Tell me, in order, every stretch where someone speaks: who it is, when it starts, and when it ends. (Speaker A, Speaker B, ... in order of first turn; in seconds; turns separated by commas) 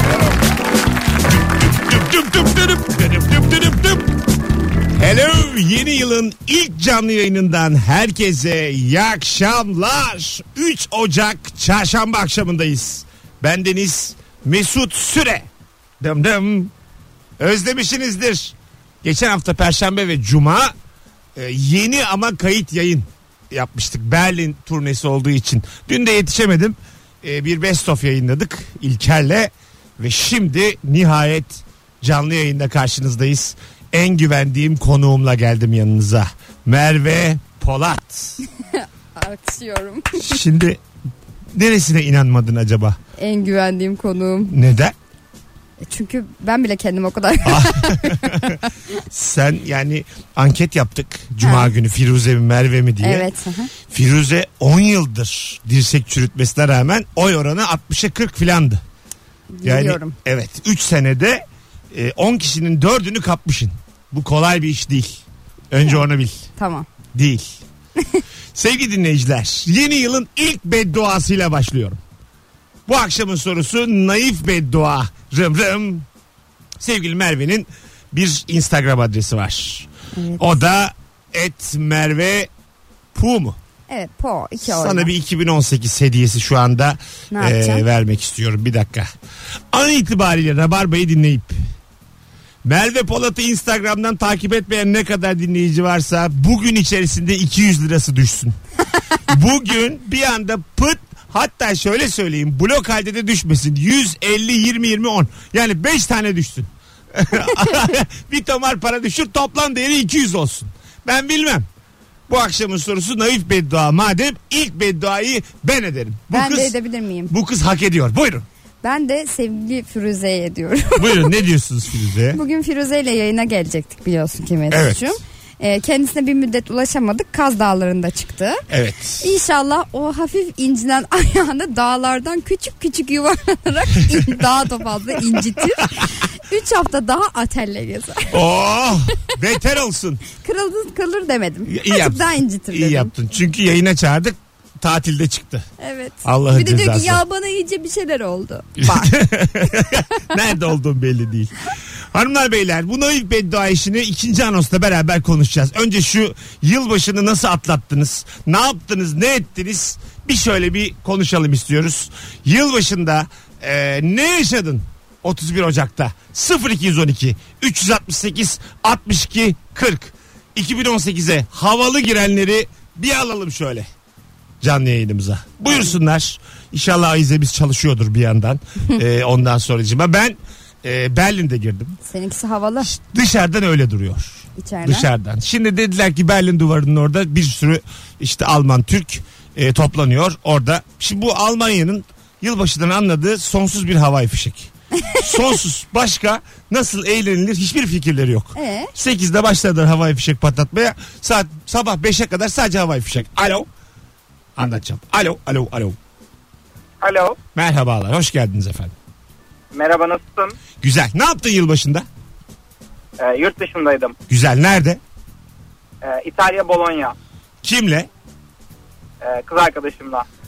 Speaker A: 1.5-4.1, Speaker A: 4.9-15.5, Speaker A: 16.0-16.7, Speaker A: 17.4-20.7, Speaker A: 21.4-38.4, Speaker B: 38.7-40.4, Speaker A: 40.2-40.8, Speaker A: 41.5-43.0, Speaker B: 43.2-44.5, Speaker A: 44.5-44.9, Speaker B: 45.8-48.5, Speaker A: 47.4-48.6, Speaker A: 49.1-53.3, Speaker B: 51.4-51.7, Speaker B: 53.0-53.7, Speaker A: 53.9-58.8, Speaker B: 59.6-60.1, Speaker A: 59.6-66.5, Speaker B: 66.6-66.9, Speaker A: 67.1-67.6, Speaker A: 68.5-72.0, Speaker A: 72.9-76.0, Speaker A: 76.8-82.5, Speaker B: 80.1-80.5, Speaker A: 83.1-83.6, Speaker B: 83.9-85.1, Speaker A: 84.6-89.1, Speaker B: 87.3-87.8, Speaker A: 89.7-91.5, Speaker A: 92.6-98.5, Speaker A: 99.3-111.7, Speaker A: 112.3-116.7, Speaker B: 116.3-117.3, Speaker A: 117.3-118.5, Speaker B: 118.8-121.3, Speaker A: 121.0-122.4, Speaker B: 122.3-128.6, Speaker A: 124.7-125.2, Speaker A: 128.7-129.2, Speaker B: 129.2-138.4, Speaker A: 138.3-140.2, Speaker B: 140.4-143.1, Speaker A: 141.7-145.7, Speaker B: 145.8-149.1, Speaker A: 146.2-147.2, Speaker A: 148.8-173.9, Speaker A: 174.6-182.0, Speaker B: 182.1-182.9, Speaker A: 182.8-203.7, Speaker B: 184.6-185.1, Speaker B: 198.5-198.9, Speaker A: 204.6-206.0, Speaker C: 207.0-207.4, Speaker A: 207.5-208.9, Speaker C: 209.7-210.6, Speaker A: 210.8-212.1, Speaker C: 213.2-214.2, Speaker A: 214.3-215.0, Speaker C: 216.0-217.1, Speaker A: 217.6-218.1, Speaker C: 219.2-220.2